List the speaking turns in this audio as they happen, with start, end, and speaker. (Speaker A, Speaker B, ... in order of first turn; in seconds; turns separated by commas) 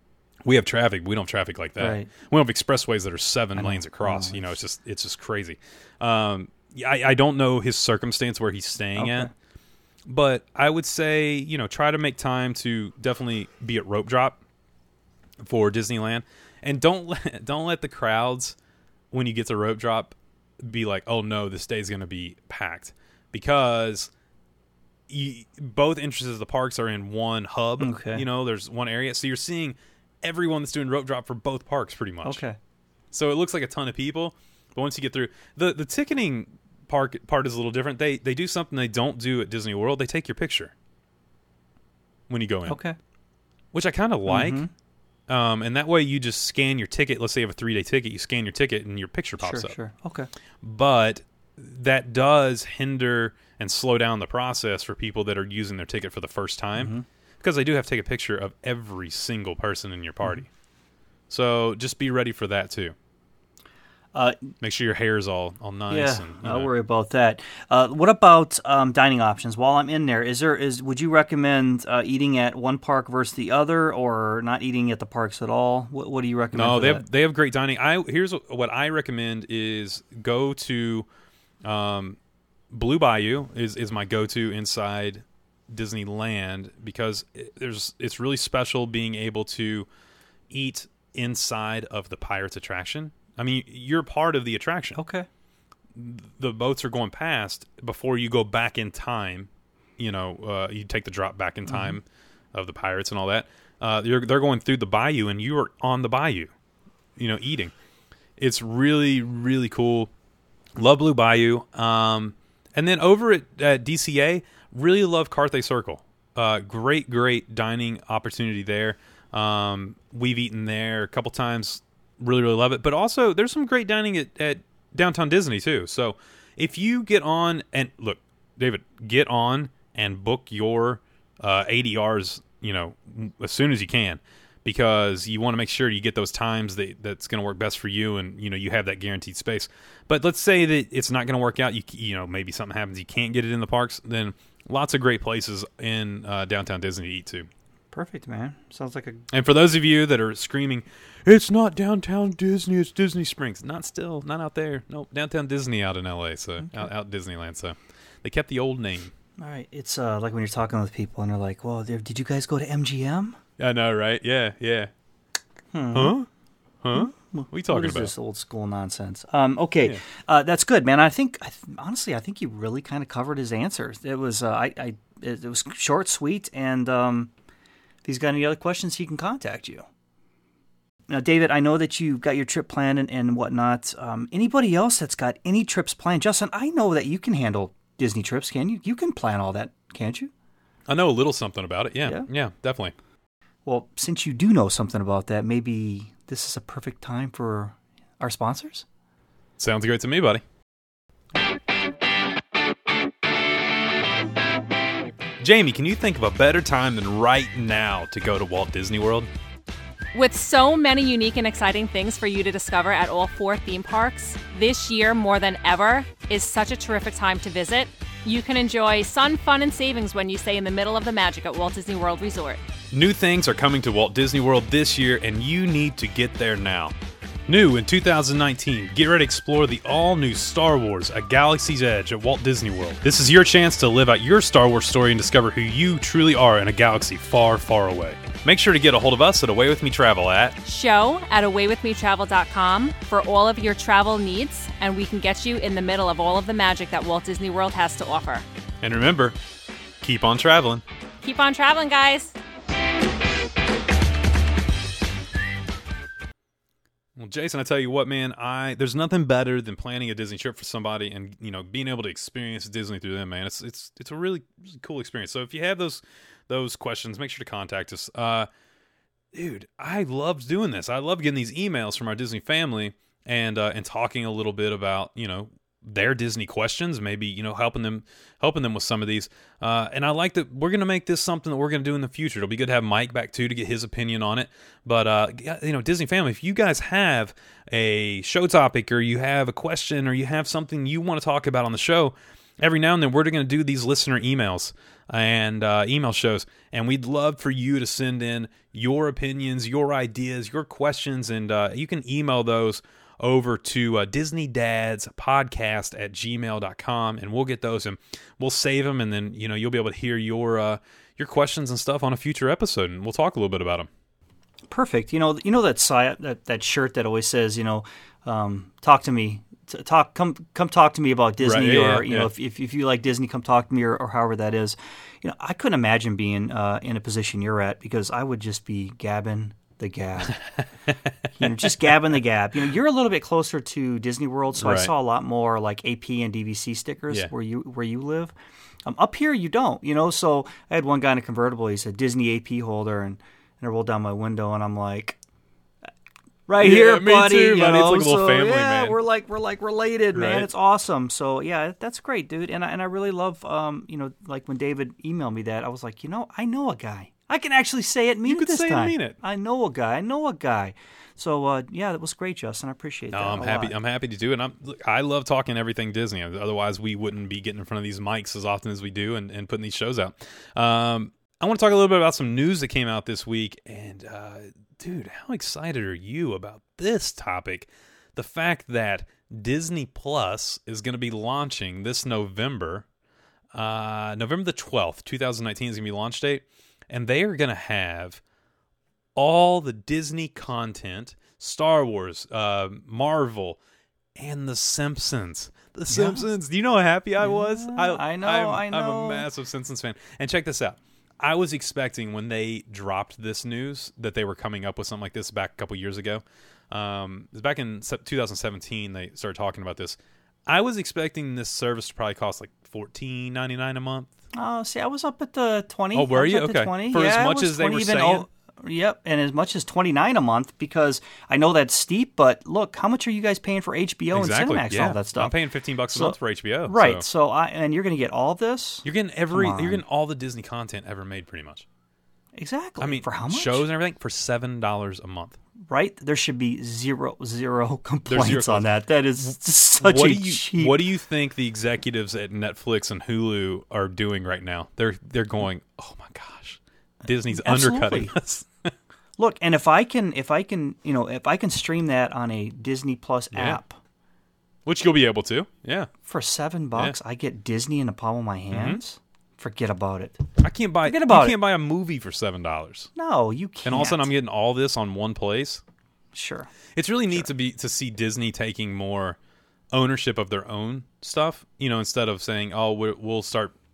Speaker A: 0.4-9.3, Speaker B: 1.8-2.1, Speaker B: 3.5-4.4, Speaker B: 9.0-9.3, Speaker A: 10.1-14.4, Speaker A: 15.4-18.5, Speaker A: 19.1-24.1, Speaker A: 25.1-32.4, Speaker B: 27.8-28.2, Speaker B: 32.2-32.6, Speaker A: 33.1-40.7, Speaker A: 42.3-42.8, Speaker B: 42.7-43.0, Speaker A: 43.7-44.6, Speaker B: 44.3-44.7, Speaker A: 45.3-49.7, Speaker B: 49.4-50.3, Speaker A: 50.6-60.5, Speaker B: 56.8-57.0, Speaker A: 61.3-62.9, Speaker B: 64.1-64.4, Speaker A: 64.6-66.7, Speaker B: 65.9-77.0, Speaker A: 76.5-81.0, Speaker A: 81.6-82.2, Speaker A: 82.7-89.9, Speaker A: 90.5-95.0, Speaker B: 94.9-95.3, Speaker A: 95.9-106.5, Speaker B: 101.7-102.0, Speaker A: 107.2-107.7, Speaker A: 108.4-110.1, Speaker A: 110.8-147.5, Speaker B: 147.9-149.2, Speaker A: 149.3-159.1, Speaker B: 159.4-163.3, Speaker A: 163.6-164.9, Speaker B: 165.7-166.1, Speaker A: 165.9-166.3, Speaker A: 166.8-168.1, Speaker B: 166.9-177.3, Speaker B: 178.0-179.8, Speaker B: 181.1-190.3, Speaker A: 190.9-192.9, Speaker B: 193.7-198.8, Speaker A: 199.6-200.4, Speaker A: 205.4-209.3, Speaker C: 210.1-222.6, Speaker A: 222.9-226.9, Speaker A: 227.5-240.6, Speaker C: 240.6-248.4, Speaker A: 248.8-249.3, Speaker A: 250.0-250.8, Speaker C: 251.2-252.3, Speaker A: 257.2-268.5, Speaker A: 269.3-313.9, Speaker B: 314.7-330.4, Speaker A: 321.4-322.3, Speaker B: 331.4-338.3, Speaker A: 334.6-334.9, Speaker B: 338.9-345.2, Speaker B: 346.5-363.7, Speaker A: 346.6-349.0, Speaker A: 350.1-350.5, Speaker A: 358.2-359.2, Speaker A: 363.1-382.8, Speaker A: 383.5-388.2, Speaker A: 389.1-393.6, Speaker A: 394.2-414.1, Speaker B: 395.9-396.2, Speaker B: 397.2-399.2, Speaker B: 414.3-425.3, Speaker A: 415.9-418.2, Speaker A: 424.1-427.0, Speaker B: 426.7-429.8, Speaker A: 428.8-431.6, Speaker B: 432.4-433.6, Speaker A: 432.8-435.4, Speaker B: 435.7-440.8, Speaker A: 438.1-448.7, Speaker B: 447.3-448.1, Speaker B: 449.2-453.8, Speaker A: 453.3-453.6, Speaker A: 454.6-455.9, Speaker B: 456.0-460.2, Speaker A: 458.5-458.8, Speaker A: 460.4-462.9, Speaker B: 460.8-461.4, Speaker B: 462.9-464.1, Speaker A: 463.6-465.6, Speaker B: 466.1-466.5, Speaker A: 466.8-469.2, Speaker A: 469.7-473.5